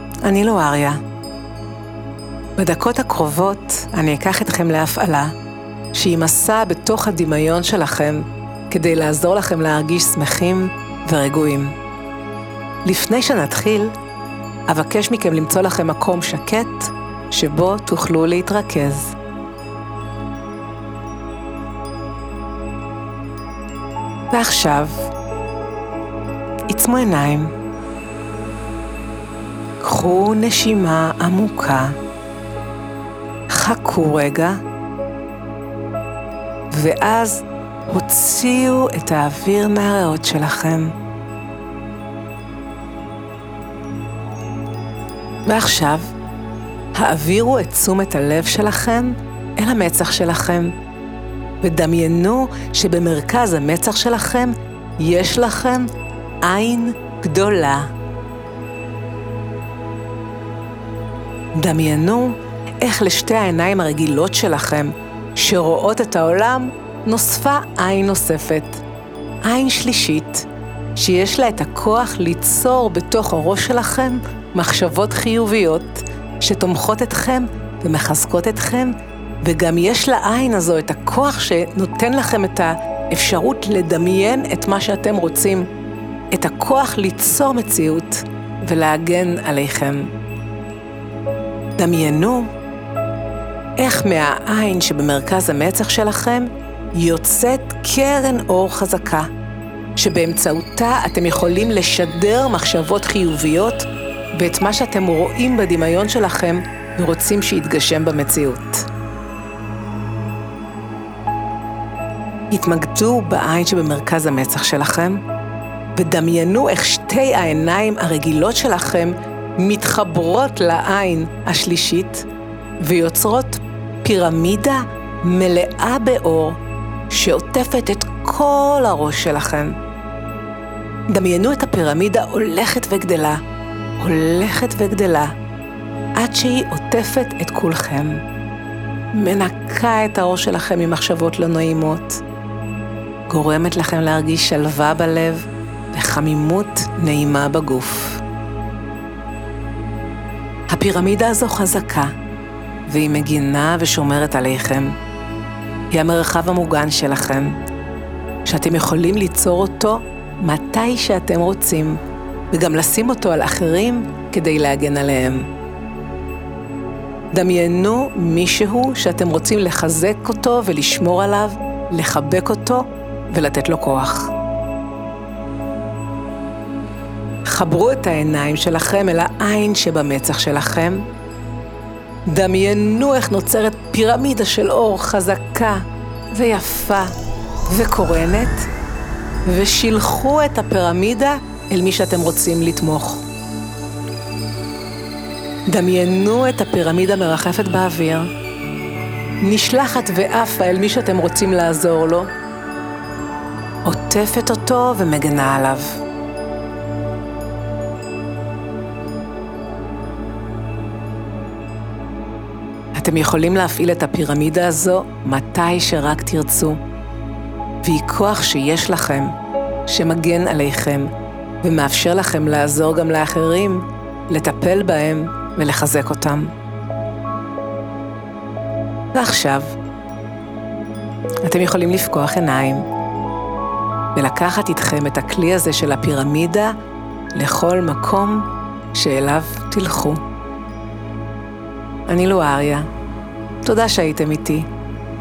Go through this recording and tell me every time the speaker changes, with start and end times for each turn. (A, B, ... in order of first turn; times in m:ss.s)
0:00.2-0:01.0 A
0:02.6-0:05.3 A
0:05.9-0:11.7 A
0:12.8-0:13.9 A
0:14.7-0:19.2 A
0:24.3-0:25.1 A
0:26.7-0:27.5 A
0:29.8-0:32.0 A
0:33.5-0:34.6 A
0:36.7-0:40.9 A
0:45.4-0:46.1 A
0:46.9-0:50.7 A
0:51.6-0:55.9 A
0:56.4-0:57.9 A
1:01.5-1:08.8 A
1:09.4-1:25.7 A
1:26.3-1:30.1 A
1:31.8-1:32.5 A
1:33.8-1:39.3 A
1:40.0-1:48.9 A
1:52.5-1:55.2 A
1:55.9-2:02.3 A
2:02.8-2:09.8 A
2:11.1-2:13.4 A
2:14.0-2:15.3 A
2:16.2-2:18.2 A
2:19.1-2:22.2 A
2:23.3-2:28.2 A
2:30.7-2:32.1 A
2:32.9-2:35.0 A
2:35.9-2:37.6 A
2:38.4-2:42.0 A
2:42.5-2:45.5 A
2:47.3-2:54.3 A
2:57.4-3:01.0 A
3:02.2-3:07.1 A
3:07.7-3:08.7 A
3:09.4-3:13.2 A
3:15.7-3:18.3 A
3:19.4-3:22.3 A
3:23.8-3:26.0 A
3:32.9-3:36.8 A
3:37.8-3:39.3 A
3:39.9-3:41.1 A
3:41.6-3:46.5 A
3:49.1-3:49.7 A
3:51.4-3:52.8 A
3:54.1-3:56.7 A
3:57.3-4:00.2 A
4:02.1-4:02.9 A
4:03.6-4:04.7 A